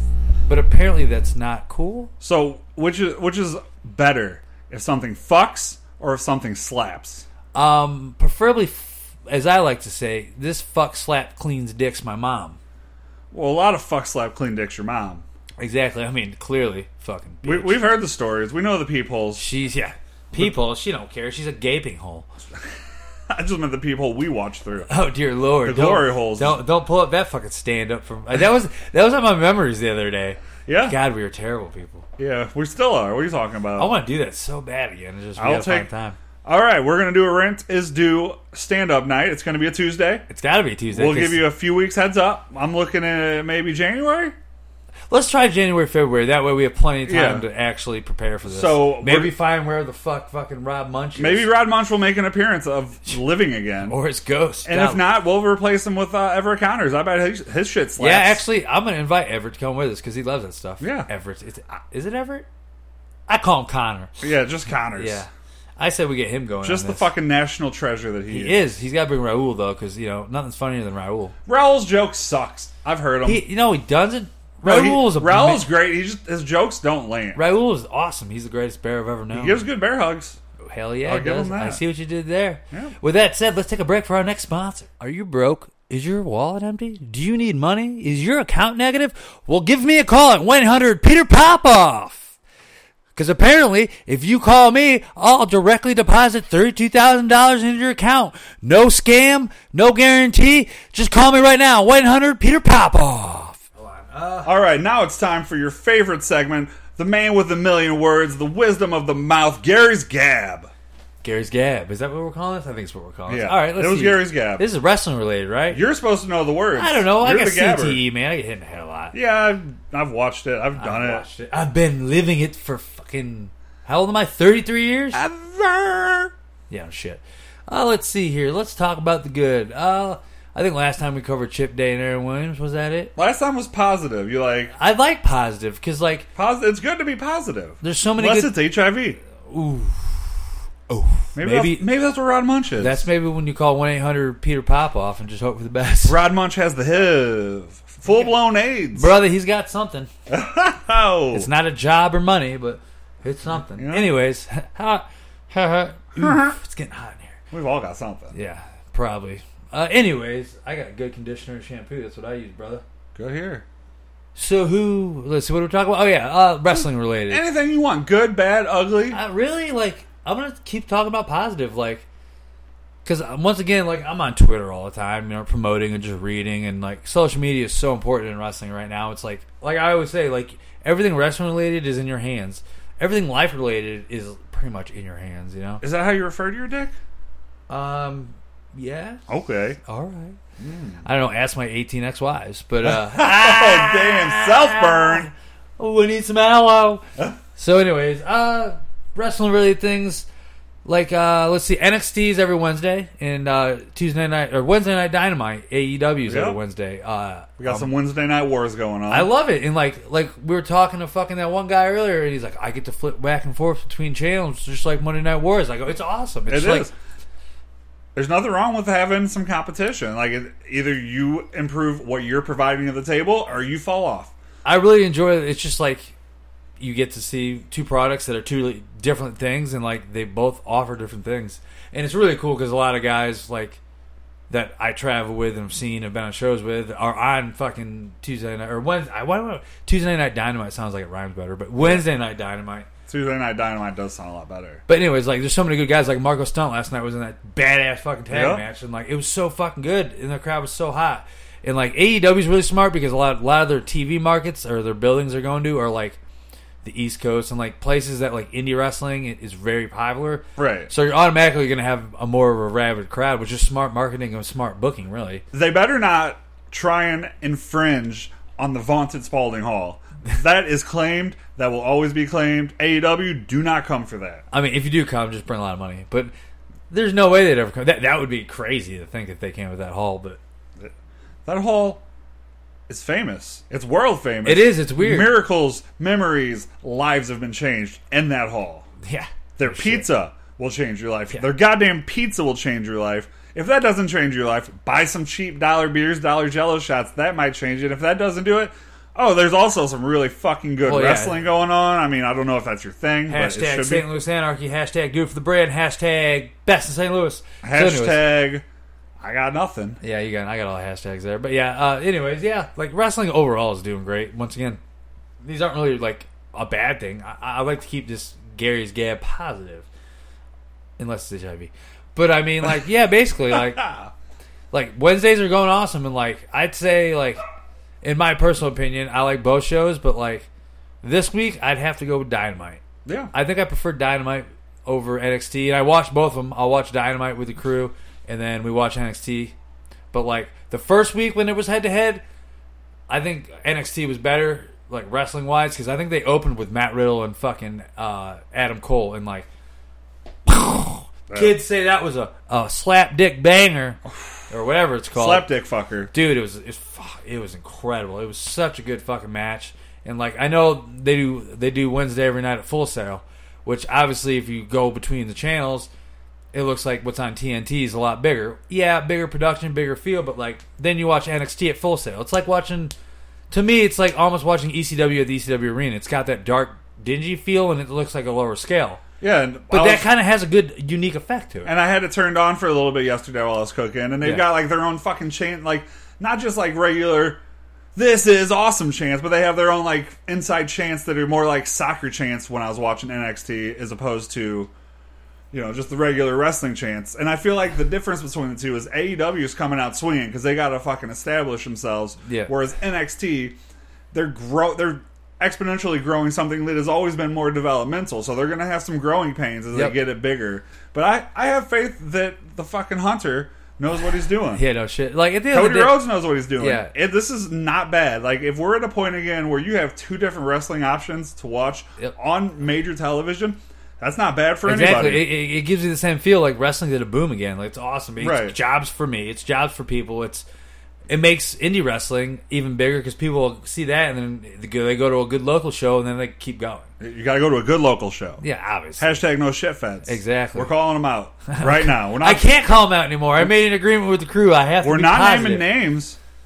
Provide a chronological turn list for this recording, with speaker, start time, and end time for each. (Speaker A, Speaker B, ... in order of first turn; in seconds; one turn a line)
Speaker A: 0.5-2.1
Speaker B: 2.2-7.3
Speaker A: 7.5-12.6
Speaker B: 13.3-15.2
Speaker A: 15.6-17.8
Speaker B: 17.4-19.4
Speaker A: 19.4-22.3
Speaker B: 23.3-24.9
Speaker A: 24.9-32.1
Speaker B: 25.6-26.6
Speaker B: 30.7-31.0
Speaker B: 32.2-33.9
Speaker A: 33.8-36.2
Speaker B: 35.4-35.9
Speaker B: 36.4-40.2
Speaker A: 40.3-41.5
Speaker B: 40.9-44.4
Speaker A: 45.1-51.5
Speaker B: 47.1-47.5
Speaker B: 48.5-49.4
Speaker B: 51.2-54.0
Speaker A: 53.9-55.0
Speaker B: 54.6-58.4
Speaker A: 58.0-62.5
Speaker B: 60.8-61.1
Speaker A: 63.3-64.2
Speaker B: 64.2-65.2
Speaker A: 64.9-67.1
Speaker B: 66.6-68.6
Speaker A: 68.3-71.3
Speaker B: 71.5-73.4
Speaker A: 73.2-75.7
Speaker B: 74.6-77.4
Speaker A: 77.3-79.6
Speaker B: 79.3-80.4
Speaker A: 80.6-92.3
Speaker B: 81.0-81.8
Speaker A: 93.2-104.5
Speaker B: 104.4-110.7
Speaker A: 111.2-115.8
Speaker B: 113.3-114.7
Speaker B: 115.7-118.0
Speaker A: 116.8-119.2
Speaker B: 119.1-121.3
Speaker A: 120.8-125.2
Speaker B: 125.1-126.3
Speaker A: 126.7-133.1
Speaker B: 133.2-134.7
Speaker A: 134.8-136.3
Speaker B: 136.3-139.2
Speaker A: 137.8-138.6
Speaker A: 139.4-140.2
Speaker A: 140.9-141.8
Speaker B: 141.3-143.0
Speaker A: 142.8-146.2
Speaker B: 146.1-149.2
Speaker A: 148.9-150.1
Speaker B: 150.3-151.5
Speaker A: 151.3-157.4
Speaker B: 153.6-154.1
Speaker B: 156.2-156.6
Speaker B: 157.5-158.3
Speaker A: 158.3-162.8
Speaker B: 163.2-163.7
Speaker A: 164.4-167.4
Speaker B: 167.3-169.2
Speaker A: 169.1-172.0
Speaker A: 173.1-185.8
Speaker B: 185.8-186.9
Speaker A: 187.7-189.2
Speaker B: 189.3-189.8
Speaker A: 189.8-190.4
Speaker B: 190.6-191.0
Speaker A: 191.0-197.0
Speaker B: 192.8-195.3
Speaker A: 197.6-200.3
Speaker A: 200.8-207.9
Speaker B: 206.3-206.6
Speaker B: 207.6-209.3
Speaker A: 209.1-216.9
Speaker B: 216.5-216.9
Speaker B: 218.2-224.3
Speaker A: 224.7-226.1
Speaker A: 226.8-233.8
Speaker A: 234.5-242.9
Speaker B: 241.8-242.1
Speaker B: 243.1-244.8
Speaker A: 244.9-256.2
Speaker B: 248.3-248.7
Speaker A: 256.8-265.4
Speaker B: 260.6-260.9
Speaker B: 265.5-274.4
Speaker A: 274.5-276.3
Speaker A: 276.9-280.4
Speaker B: 281.5-282.0
Speaker B: 282.9-288.9
Speaker A: 284.4-285.4
Speaker A: 289.0-290.1
Speaker B: 289.6-304.1
Speaker A: 300.9-301.4
Speaker A: 303.3-308.3
Speaker B: 307.6-308.6
Speaker B: 309.2-310.0
Speaker A: 310.0-314.8
Speaker A: 315.4-319.9
Speaker A: 321.0-323.9
Speaker B: 323.8-324.1
Speaker A: 324.7-327.4
Speaker A: 328.0-330.5
Speaker A: 331.0-339.6
Speaker B: 333.1-333.3
Speaker A: 340.1-342.2
Speaker A: 343.1-349.5
Speaker A: 350.5-355.5
Speaker B: 351.3-351.6
Speaker B: 355.1-356.1
Speaker A: 356.1-365.9
Speaker A: 366.5-372.9
Speaker A: 373.5-379.0
Speaker B: 379.2-380.1
Speaker A: 379.7-381.7
Speaker B: 381.6-387.4
Speaker B: 387.9-394.7
Speaker B: 395.5-403.6
Speaker A: 402.2-402.5
Speaker B: 404.1-414.6
Speaker A: 414.6-416.9
Speaker B: 415.5-425.3
Speaker A: 424.6-430.4
Speaker B: 428.2-428.6
Speaker A: 431.1-436.9
Speaker B: 437.0-438.4
Speaker A: 438.4-439.2
Speaker B: 439.0-442.5
Speaker A: 440.1-440.7
Speaker A: 441.5-445.7
Speaker B: 444.8-446.2